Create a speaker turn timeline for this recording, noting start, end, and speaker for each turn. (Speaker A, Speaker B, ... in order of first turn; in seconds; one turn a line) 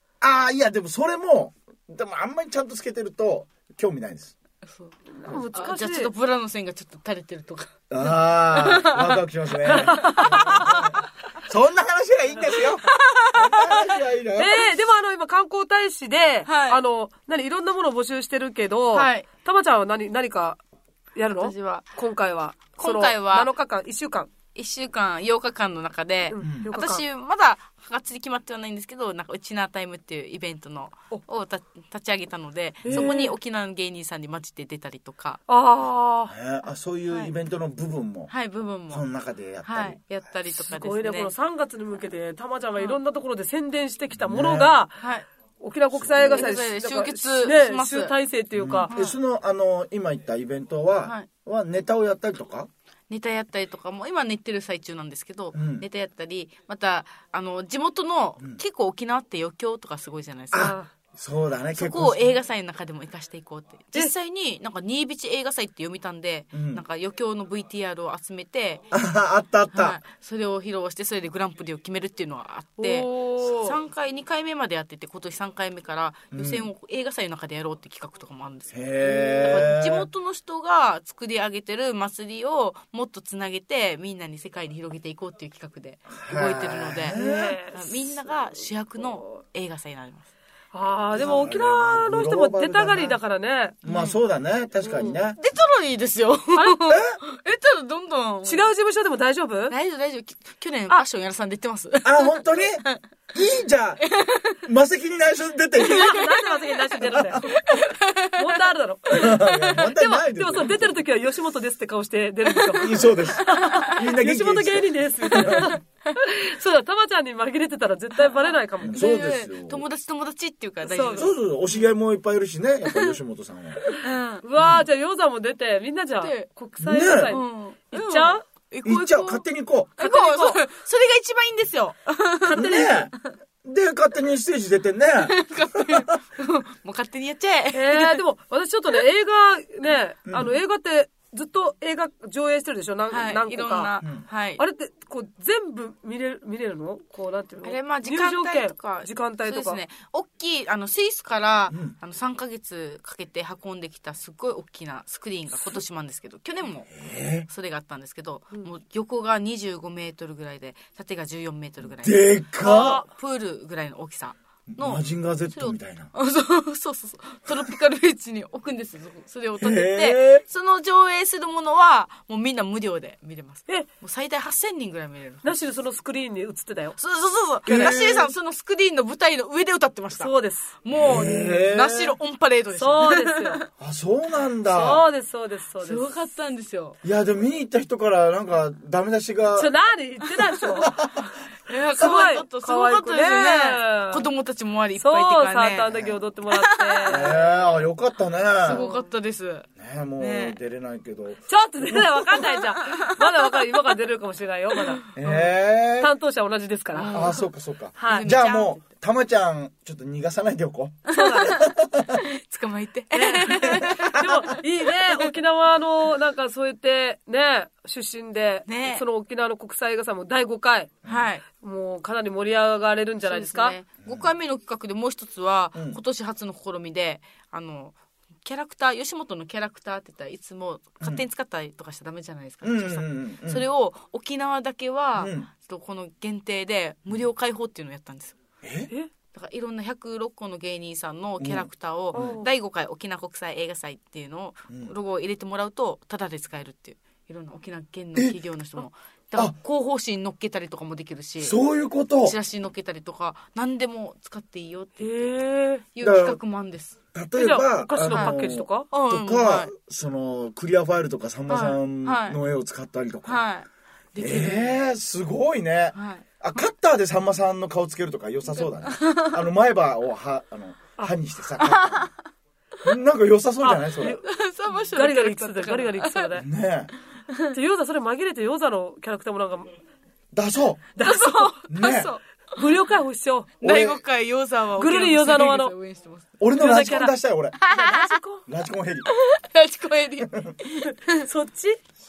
Speaker A: 0.2-4.3
Speaker B: 4.7-4.9
Speaker C: 5.1-6.1
Speaker B: 5.5-9.2
Speaker A: 7.9-14.7
Speaker C: 9.7-10.9
Speaker B: 9.7-10.7
Speaker B: 13.4-13.9
Speaker C: 14.4-20.6
Speaker B: 16.5-16.8
Speaker B: 18.9-19.3
Speaker C: 21.1-24.3
Speaker B: 21.4-21.9
Speaker B: 22.8-23.5
Speaker B: 24.5-35.4
Speaker C: 26.3-27.0
Speaker A: 26.4-26.7
Speaker C: 32.8-33.3
Speaker A: 32.9-33.2
Speaker C: 35.5-36.3
Speaker A: 36.3-38.3
Speaker B: 38.3-39.1
Speaker A: 38.9-40.0
Speaker B: 39.6-41.3
Speaker C: 40.6-45.0
Speaker A: 44.2-44.7
Speaker B: 45.0-45.2
Speaker C: 45.6-48.9
Speaker A: 45.9-46.5
Speaker B: 46.2-48.1
Speaker A: 48.5-52.7
Speaker B: 48.9-49.1
Speaker B: 53.1-60.8
Speaker A: 55.5-55.9
Speaker A: 60.5-62.4
Speaker C: 60.6-60.9
Speaker B: 61.7-68.8
Speaker A: 66.5-66.8
Speaker A: 68.9-70.0
Speaker B: 69.7-90.3
Speaker C: 72.8-73.8
Speaker A: 76.3-76.7
Speaker A: 78.7-80.1
Speaker A: 86.1-87.6
Speaker C: 87.1-88.2
Speaker C: 90.7-93.8
Speaker A: 91.1-93.2
Speaker A: 93.8-95.4
Speaker B: 93.9-94.2
Speaker C: 94.8-95.2
Speaker B: 95.4-98.7
Speaker C: 96.5-96.8
Speaker A: 96.9-97.2
Speaker C: 98.4-99.8
Speaker B: 99.7-103.0
Speaker A: 102.0-104.0
Speaker B: 104.1-104.6
Speaker A: 104.7-106.2
Speaker C: 105.8-107.8
Speaker B: 105.9-108.4
Speaker A: 107.1-107.4
Speaker C: 108.3-119.0
Speaker A: 109.1-111.0
Speaker B: 109.2-109.8
Speaker B: 112.7-113.1
Speaker A: 112.8-115.7
Speaker B: 115.3-115.8
Speaker B: 118.8-121.3
Speaker A: 118.8-119.8
Speaker C: 120.8-121.3
Speaker A: 121.2-123.8
Speaker B: 122.8-123.2
Speaker B: 123.8-124.4
Speaker C: 124.4-128.4
Speaker A: 124.6-124.8
Speaker B: 126.2-126.5
Speaker A: 126.8-127.4
Speaker B: 127.2-129.4
Speaker A: 128.8-130.0
Speaker B: 130.0-132.9
Speaker C: 130.0-130.6
Speaker C: 132.4-133.1
Speaker A: 132.5-136.0
Speaker B: 135.2-138.2
Speaker C: 137.7-143.9
Speaker A: 140.2-140.6
Speaker B: 143.1-144.6
Speaker A: 144.0-144.3
Speaker C: 144.6-149.8
Speaker B: 147.6-156.9
Speaker A: 151.7-151.9
Speaker A: 157.0-157.5
Speaker B: 157.5-162.3
Speaker A: 162.0-163.0
Speaker C: 162.6-163.1
Speaker B: 162.9-175.6
Speaker A: 164.7-166.1
Speaker A: 169.6-170.4
Speaker C: 175.4-177.0
Speaker B: 177.0-180.3
Speaker A: 177.7-178.3
Speaker C: 180.2-180.8
Speaker B: 180.8-183.6
Speaker A: 180.9-182.2
Speaker C: 182.8-183.6
Speaker A: 183.8-185.0
Speaker C: 184.7-186.1
Speaker B: 185.8-187.0
Speaker A: 187.0-189.7
Speaker C: 189.5-191.1
Speaker A: 190.3-191.2
Speaker B: 191.7-195.9
Speaker C: 192.0-194.3
Speaker C: 195.0-197.8
Speaker A: 195.9-196.2
Speaker B: 196.5-197.3
Speaker A: 197.1-198.9
Speaker B: 198.6-199.7
Speaker C: 198.7-199.0
Speaker A: 199.8-202.3
Speaker B: 200.2-200.6
Speaker C: 201.5-205.4
Speaker B: 202.5-203.0
Speaker A: 205.1-206.1
Speaker C: 206.0-207.3
Speaker B: 206.9-207.5
Speaker A: 207.1-212.1
Speaker C: 208.0-208.4
Speaker B: 208.0-208.8
Speaker C: 211.1-211.6
Speaker B: 211.1-215.3
Speaker C: 213.1-220.9
Speaker A: 213.8-214.1
Speaker B: 218.7-219.0
Speaker B: 221.1-221.4
Speaker C: 221.6-223.8
Speaker B: 223.2-238.4
Speaker A: 225.7-226.0
Speaker A: 232.6-233.6
Speaker A: 235.2-235.5
Speaker A: 238.6-238.9
Speaker B: 239.3-251.6
Speaker A: 241.4-242.4
Speaker C: 242.1-242.5
Speaker A: 251.4-252.4
Speaker B: 252.2-255.3
Speaker C: 255.0-255.8
Speaker B: 255.9-257.0
Speaker A: 256.0-256.4
Speaker A: 257.1-263.4
Speaker C: 257.3-258.9
Speaker B: 258.1-258.4
Speaker B: 258.9-259.7
Speaker B: 261.5-262.4
Speaker B: 263.2-264.8
Speaker A: 264.2-272.1
Speaker B: 265.9-266.2
Speaker B: 268.5-269.4
Speaker B: 271.6-272.1
Speaker A: 272.8-274.2
Speaker C: 273.6-276.5
Speaker B: 274.2-276.3
Speaker A: 276.4-276.9
Speaker C: 277.5-279.7
Speaker A: 280.3-280.9
Speaker C: 281.0-281.6
Speaker B: 281.0-282.6
Speaker A: 281.7-282.1
Speaker C: 282.6-283.6
Speaker B: 283.6-286.2
Speaker A: 283.6-284.0
Speaker C: 284.8-285.7
Speaker A: 286.4-287.6
Speaker C: 286.6-287.1
Speaker B: 287.6-288.1
Speaker C: 287.7-288.4
Speaker A: 288.5-289.1
Speaker B: 289.1-291.2
Speaker C: 290.9-291.8